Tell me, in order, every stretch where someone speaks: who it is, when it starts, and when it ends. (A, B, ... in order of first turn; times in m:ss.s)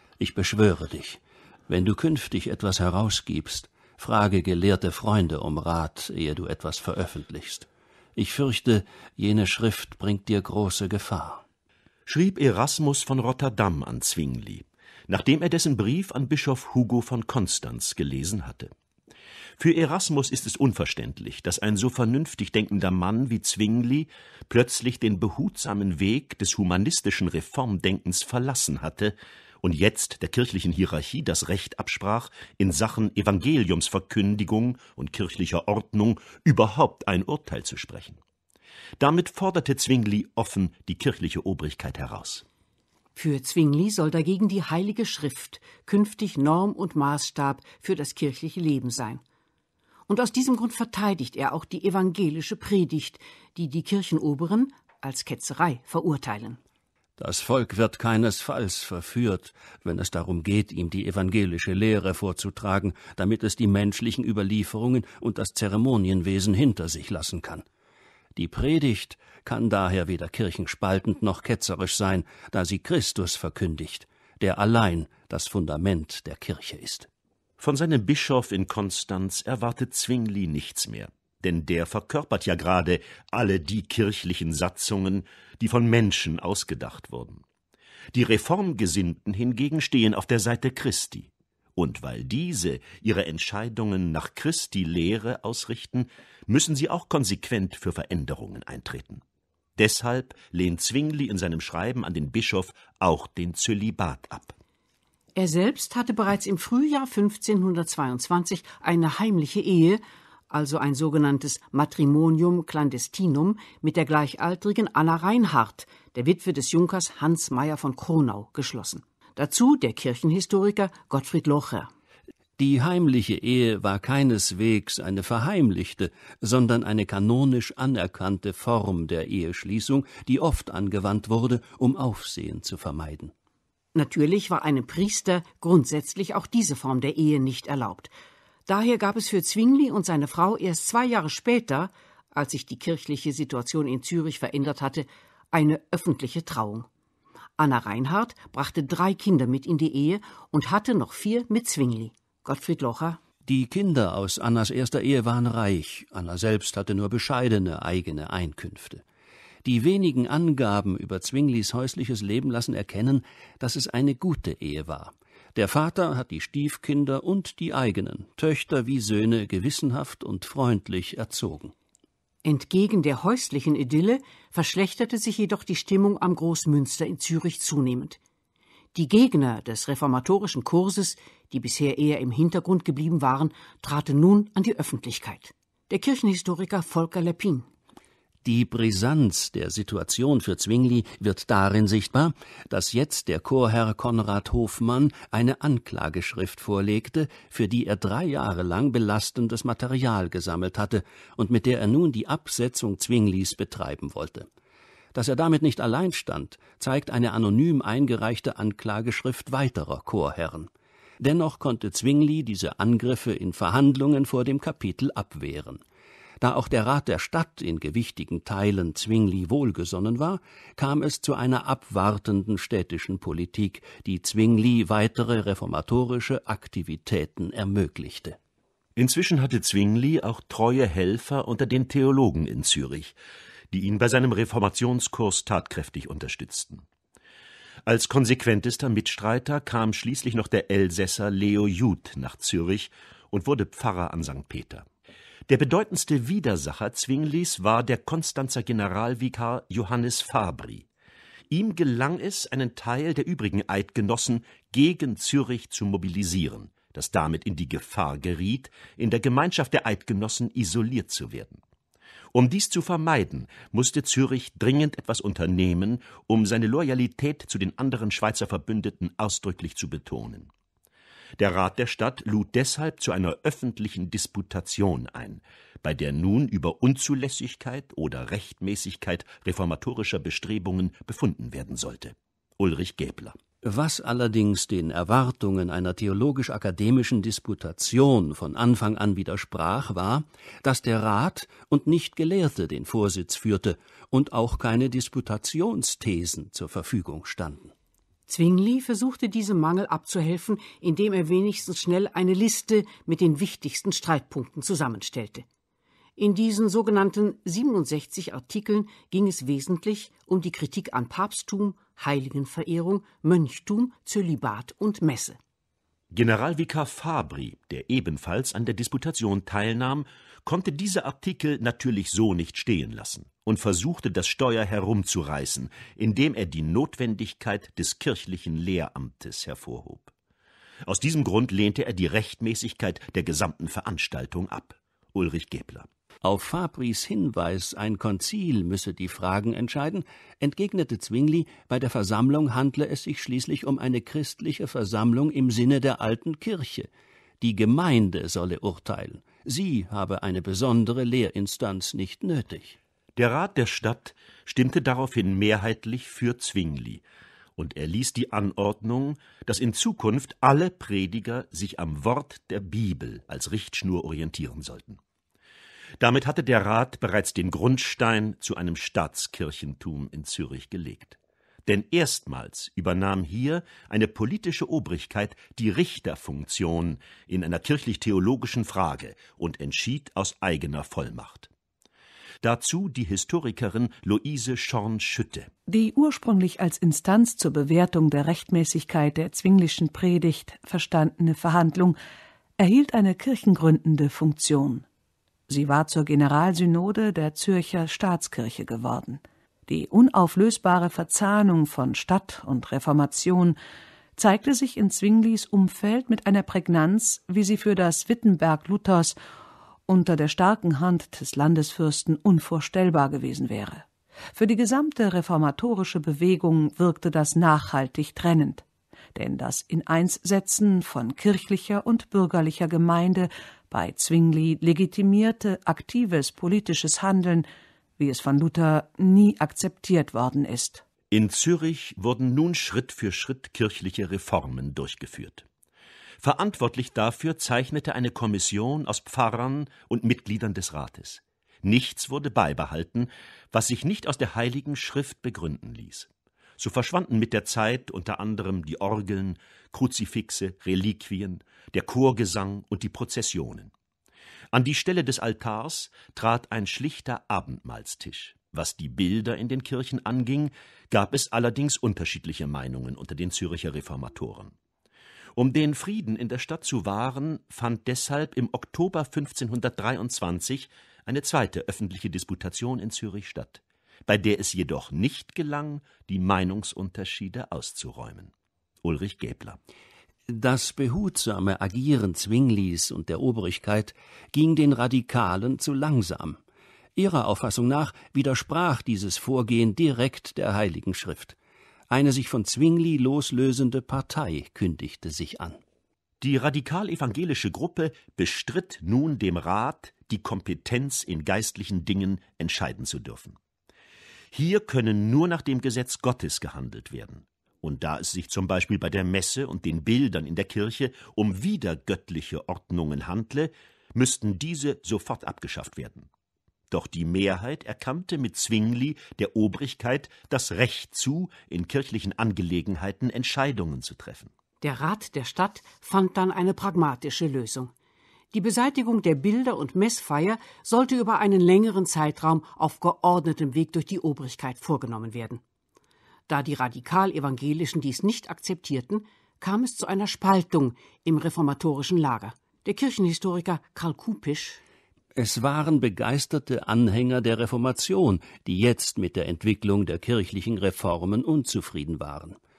0:00.2-0:11.4 A
0:12.0-0:18.7 B
0:19.6-0:38.2 B
0:39.0-0:42.4 B
0:43.1-0:49.2 C
0:50.1-0:56.6 C
0:57.2-1:07.6 A
1:08.4-1:17.1 A
1:17.6-1:27.4 B
1:28.1-1:39.2 B
1:39.8-1:44.6 B
1:45.4-2:01.9 C
2:02.6-2:13.3 A
2:13.9-2:18.1 C
2:18.7-2:26.9 C
2:27.6-2:33.2 C
2:33.4-2:39.0 A
2:39.6-2:51.7 A
2:52.4-2:58.2 C
2:58.9-3:07.7 C
3:08.4-3:24.5 A
3:25.1-3:35.8 A
3:36.4-3:48.4 A
3:49.0-3:53.2 B
3:53.7-3:56.8 B
3:57.8-4:04.8 B
4:05.5-4:10.9 B
4:11.5-4:21.6 B
4:22.3-4:30.5 B
4:31.4-4:43.4 B
4:43.6-4:57.7 A
4:58.3-5:05.4 C
5:06.2-5:15.4 C
5:16.1-5:30.1 B
5:30.8-5:35.9 B
5:36.2-5:46.9 A
5:47.4-5:52.8 A
5:53.2-5:57.0 B
5:57.6-6:05.0 B
6:06.0-6:21.5 B
6:22.4-6:25.5 B
6:25.7-6:32.0 D
6:32.6-6:34.8 D
6:35.5-6:43.6 D
6:44.2-6:49.2 D
6:49.9-6:58.6 D
6:59.1-7:07.4 D
7:08.0-7:10.8 D
7:11.1-7:15.4 B
7:16.2-7:33.7 B
7:34.5-7:44.5 B
7:45.3-7:58.3 B
7:58.8-7:59.6 B
8:00.3-8:06.4 A
8:07.0-8:11.4 A
8:11.9-8:15.6 A
8:16.2-8:23.4 B
8:24.3-8:36.1 B
8:36.7-8:44.3 B
8:44.6-8:47.7 C
8:48.3-8:55.4 C
8:56.3-9:04.6 C
9:05.1-9:12.4 A